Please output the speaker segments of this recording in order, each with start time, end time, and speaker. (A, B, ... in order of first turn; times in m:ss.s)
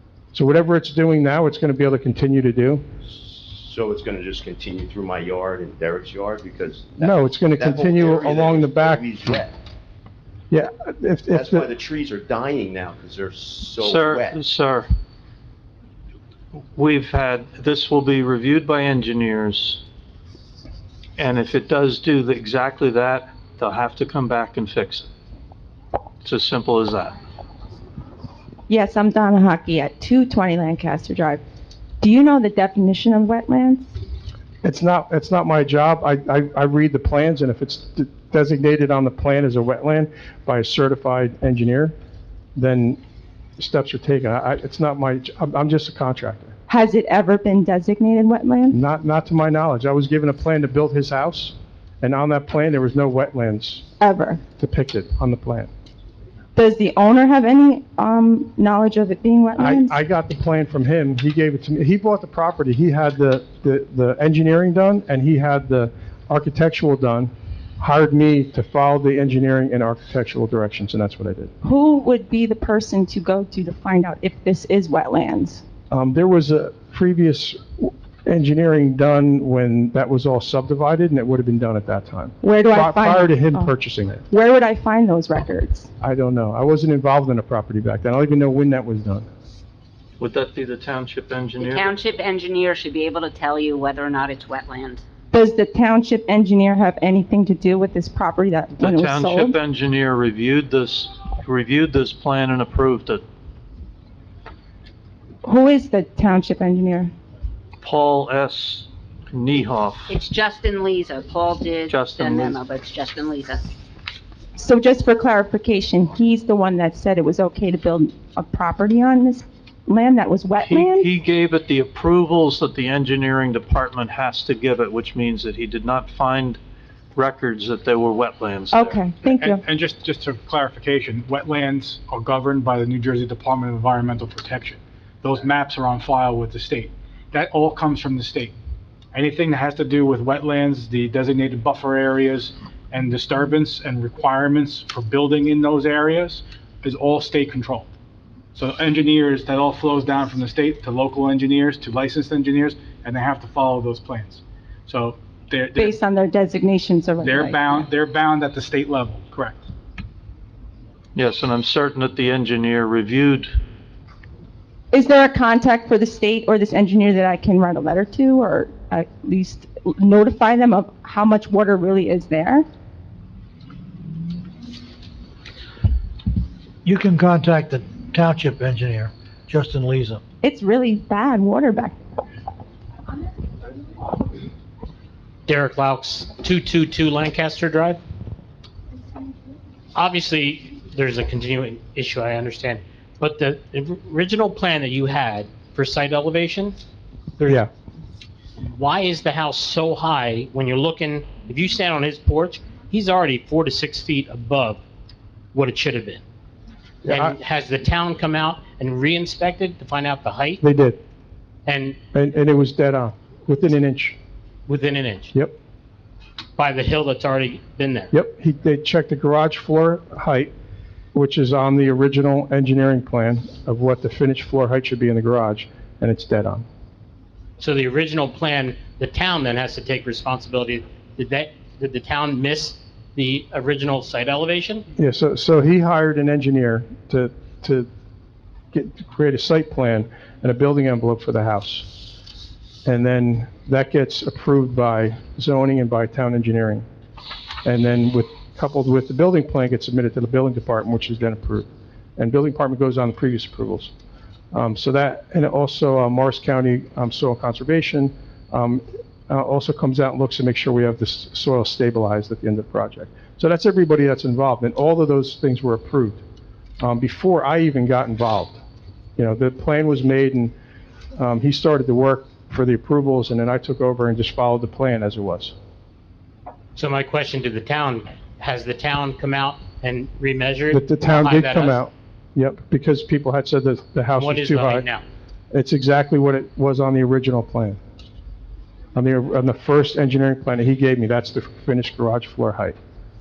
0:00.3-0:02.8 A
0:03.1-0:09.5 B
0:07.0-0:09.4 A
0:10.5-0:11.7 A
0:11.3-0:14.4 B
0:13.8-0:14.9 C
0:16.8-0:19.8 C
0:21.2-0:25.1 C
0:26.2-0:27.2 C
0:28.7-0:31.4 D
0:32.0-0:33.9 D
0:34.6-0:41.9 A
0:42.6-0:43.0 A
0:43.6-0:46.6 A
0:46.7-0:48.8 D
0:48.7-0:53.8 A
0:54.0-0:54.4 D
0:54.6-0:55.7 A
0:56.6-1:00.0 D
0:59.6-1:11.5 A
1:11.6-1:15.6 D
1:15.9-1:24.2 A
1:22.4-1:23.7 D
1:24.3-1:25.9 D
1:26.0-1:29.3 A
1:30.2-1:32.0 C
1:31.6-1:35.0 E
1:35.3-1:39.6 D
1:38.8-1:43.2 C
1:45.4-1:47.1 D
1:47.8-1:50.1 C
1:50.1-1:53.7 E
1:51.9-1:52.6 C
1:54.6-2:01.1 D
2:00.6-2:06.6 C
2:07.2-2:09.0 C
2:08.7-2:09.6 D
2:09.2-2:18.5 F
2:19.1-2:27.9 F
2:28.6-2:36.0 F
2:35.8-2:37.8 D
2:37.2-2:39.6 F
2:41.2-2:43.5 C
2:44.9-2:52.6 D
2:56.8-3:00.2 G
3:00.4-3:02.0 D
3:05.5-3:08.0 H
3:10.0-3:16.8 H
3:18.7-3:24.8 H
3:25.5-3:26.2 H
3:27.0-3:27.4 A
3:27.1-3:30.6 H
3:30.6-3:31.0 A
3:31.7-3:32.0 H
3:32.1-3:34.2 A
3:34.7-3:35.3 H
3:36.6-3:38.1 H
3:38.1-3:40.5 A
3:41.1-3:46.6 A
3:47.6-3:54.9 H
3:55.0-3:57.9 A
3:58.7-4:02.0 A
4:02.8-4:06.9 A
4:07.6-4:13.9 A
4:14.5-4:26.2 A
4:26.8-4:28.6 A
4:29.2-4:30.5 A
4:31.2-4:35.5 A
4:36.8-4:41.8 H
4:40.7-4:44.9 A
4:44.2-4:45.0 H
4:45.5-4:47.8 A
4:49.0-4:52.8 A